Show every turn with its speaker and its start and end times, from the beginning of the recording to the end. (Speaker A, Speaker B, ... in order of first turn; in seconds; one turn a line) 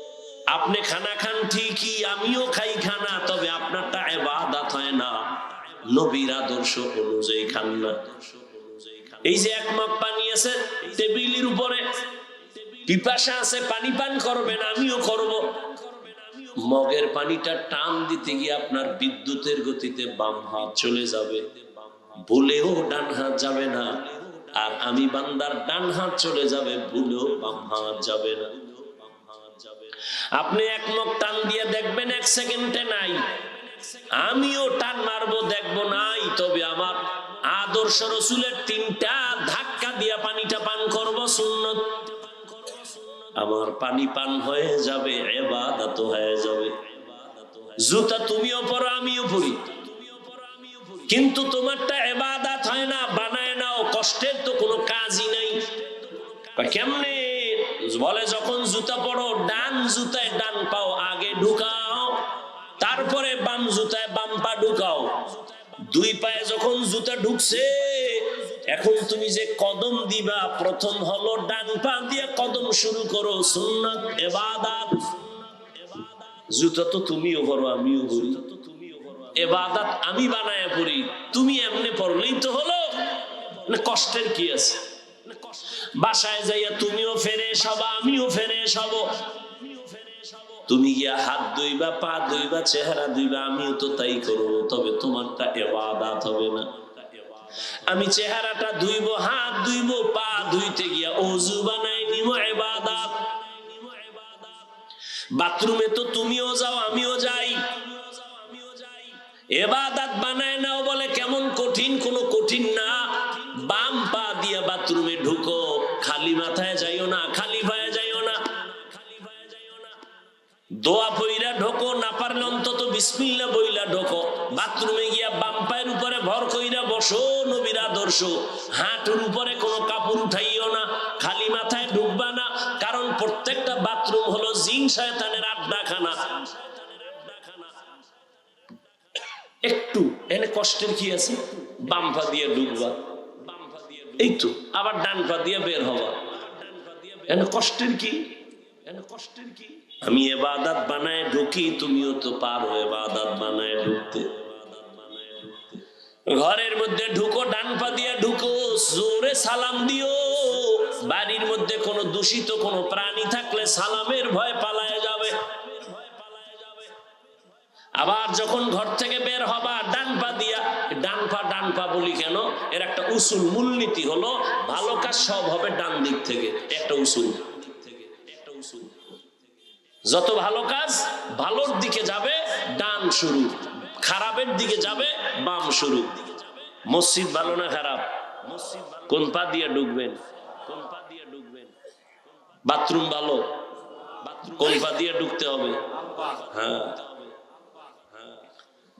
Speaker A: 0.3-104.7
Speaker A: 105.3-120.0
Speaker A: 120.7-137.9
Speaker A: 139.6-166.9
Speaker A: 168.0-179.2
Speaker A: 180.0-191.8
Speaker A: 192.5-197.3
Speaker A: 198.1-198.4